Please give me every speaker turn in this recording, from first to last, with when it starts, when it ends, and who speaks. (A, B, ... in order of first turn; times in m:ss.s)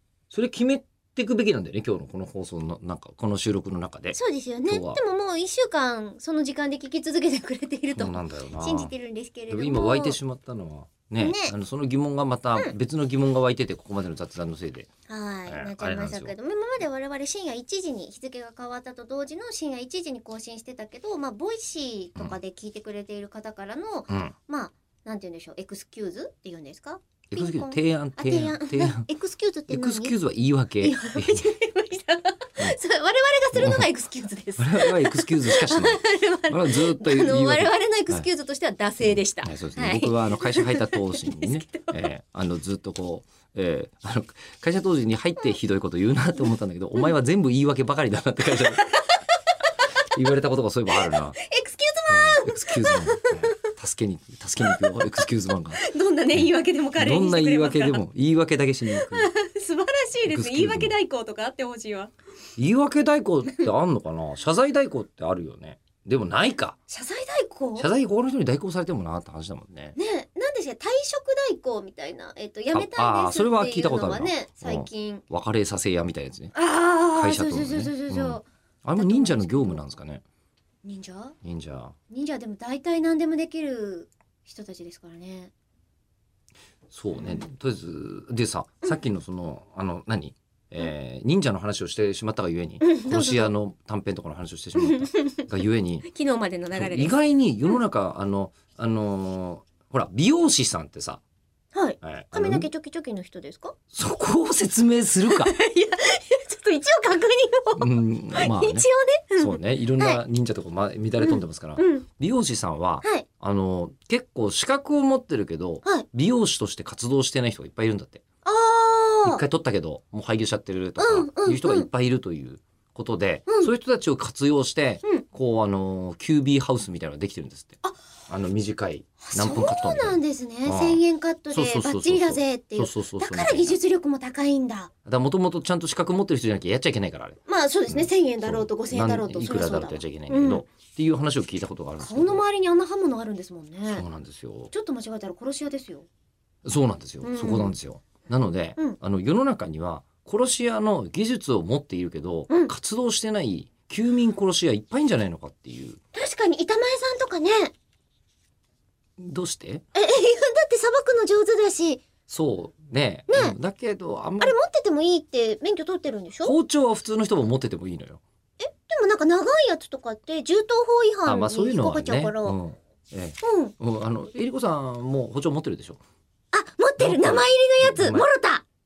0:00.3-0:05.0 A
0:04.1-0:10.2 B
0:07.9-0:08.9 A
0:09.5-0:14.9 A
0:11.2-0:11.5 B
0:15.1-0:30.1 B
0:15.5-0:16.3 A
0:24.1-0:24.3 A
0:27.3-0:29.1 A
0:29.7-0:31.5 A
0:30.8-0:42.1 B
0:33.5-0:33.9 A
0:34.6-0:38.3 A
0:39.0-0:48.8 A
0:48.5-0:49.2 B
0:50.1-0:51.4 A
0:51.1-0:53.5 B
0:52.1-0:59.3 A
0:54.6-0:58.0 B
0:58.9-1:02.1 B
1:00.2-1:01.0 A
1:02.6-1:06.8 A
1:06.9-1:07.9 B
1:07.8-1:10.0 A
1:10.0-1:15.2 B
1:12.7-1:16.5 A
1:16.5-1:18.4 B
1:17.1-1:20.2 A
1:19.0-1:19.8 B
1:20.8-1:21.4 B
1:21.4-1:22.0 A
1:22.1-1:25.5 B
1:26.9-1:36.1 A
1:27.2-1:27.4 B
1:32.8-1:33.5 B
1:34.8-1:35.4 B
1:36.0-1:37.1 B
1:36.7-1:41.2 A
1:41.7-1:43.7 B
1:42.0-1:42.7 A
1:43.9-1:45.5 A
1:45.2-1:50.2 B
1:47.8-1:58.2 A
1:51.2-1:52.0 B
1:58.4-1:59.4 B
1:59.2-2:07.8 A
2:01.0-2:01.9 B
2:08.3-2:13.8 A
2:09.2-2:14.9 B
2:15.0-2:22.4 A
2:17.5-2:20.6 B
2:22.0-2:24.0 B
2:23.9-2:24.7 A
2:24.7-2:26.1 B
2:26.6-2:36.0 A
2:27.2-2:27.7 B
2:36.1-2:37.7 B
2:39.2-2:39.8 A
2:39.9-2:42.0 B
2:42.3-2:44.6 A
2:43.3-2:43.6 B
2:44.4-2:46.5 B
2:46.4-2:48.2 A
2:48.6-2:52.6 B
2:51.2-2:56.0 A
2:53.4-2:53.7 B
2:56.5-2:58.6 B
2:57.0-2:58.2 A